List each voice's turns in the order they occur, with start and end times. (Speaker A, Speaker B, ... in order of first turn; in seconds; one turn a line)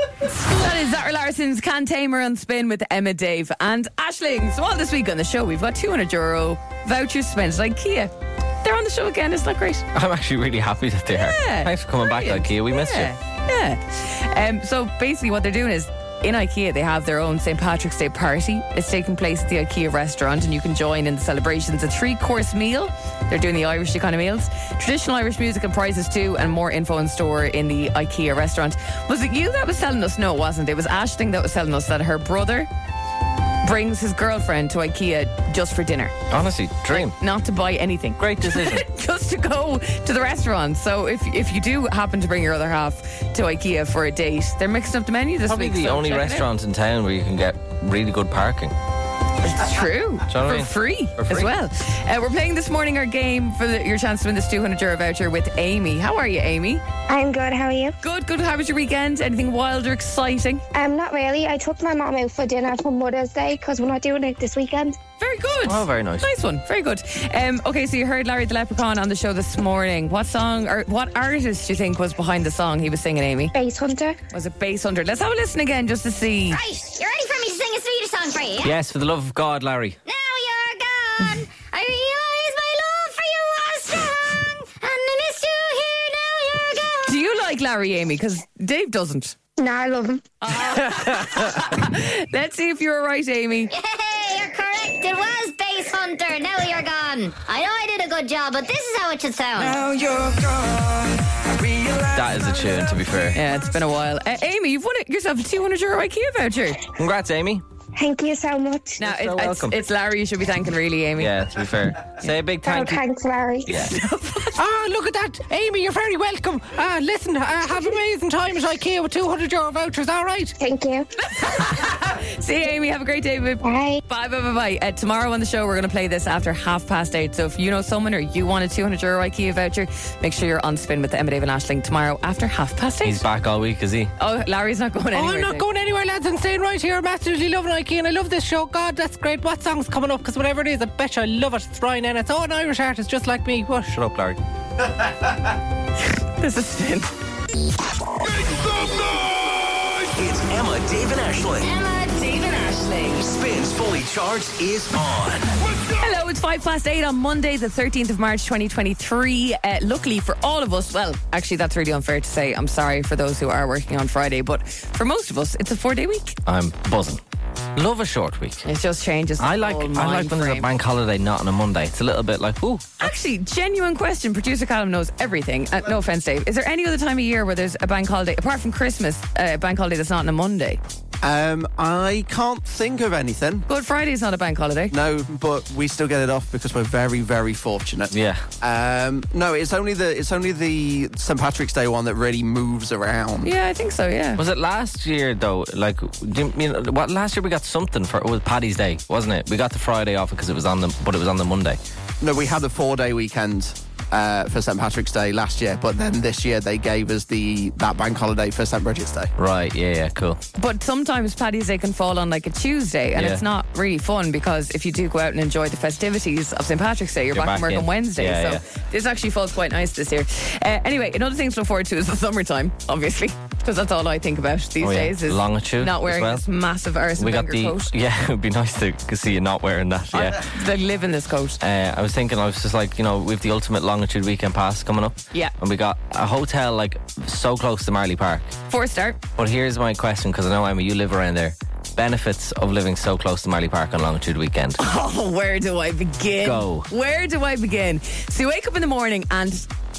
Speaker A: 0.3-9.9
Speaker B: 9.9-13.1
Speaker A: 11.1-32.7
Speaker A: 33.6-36.1
Speaker B: 36.3-37.1
Speaker A: 36.9-46.5
Speaker B: 38.2-38.8
Speaker B: 45.5-48.7
Speaker A: 49.4-56.8
Speaker B: 50.3-51.5
Speaker C: 57.1-57.9
Speaker A: 58.0-60.6
Speaker C: 60.7-65.0
Speaker A: 65.2-73.5
Speaker B: 65.7-66.3
Speaker C: 73.5-74.2
Speaker A: 74.3-76.6
Speaker D: 76.5-78.7
Speaker B: 78.6-80.0
Speaker D: 80.1-87.3
Speaker A: 87.1-89.3
Speaker C: 89.6-90.3
Speaker A: 90.4-93.7
Speaker B: 91.0-91.3
Speaker D: 93.7-99.8
Speaker E: 99.8-102.0
Speaker B: 102.1-103.4
Speaker A: 103.3-106.8
Speaker B: 107.0-107.6
Speaker C: 108.0-109.0
Speaker A: 109.0-111.3
Speaker B: 109.0-109.8
Speaker B: 111.2-113.0
Speaker C: 112.6-113.7
Speaker B: 113.7-113.9
Speaker A: 113.7-114.6
Speaker F: 114.6-120.5
Speaker C: 120.6-121.1
Speaker A: 121.2-133.2
Speaker C: 123.6-124.0
Speaker B: 133.0-134.1
Speaker A: 134.2-135.7
Speaker F: 135.1-143.9
Speaker B: 143.9-144.4
Speaker A: 146.1-147.1
Speaker G: 148.5-149.3
Speaker G: 150.0-151.8
Speaker E: 151.6-153.2
Speaker G: 153.2-155.6
Speaker A: 155.9-166.4
Speaker B: 166.5-167.2
Speaker B: 167.8-168.6
Speaker A: 168.6-170.7
Speaker B: 169.4-173.1
Speaker A: 173.0-180.8
Speaker H: 181.2-183.7
Speaker A: 183.7-184.9
Speaker H: 184.9-193.5
Speaker B: 188.1-188.4
Speaker A: 193.4-194.4
Speaker B: 194.4-201.8
Speaker H: 202.2-209.3
Speaker B: 209.4-210.4
Speaker A: 210.6-227.9
Speaker B: 213.2-213.4
Speaker B: 217.3-218.6
Speaker B: 224.8-226.4
Speaker B: 227.2-230.5
Speaker A: 230.1-231.6
Speaker B: 231.6-238.5
Speaker A: 238.7-239.2
Speaker B: 239.4-244.8
Speaker A: 244.8-249.7
Speaker B: 246.4-246.9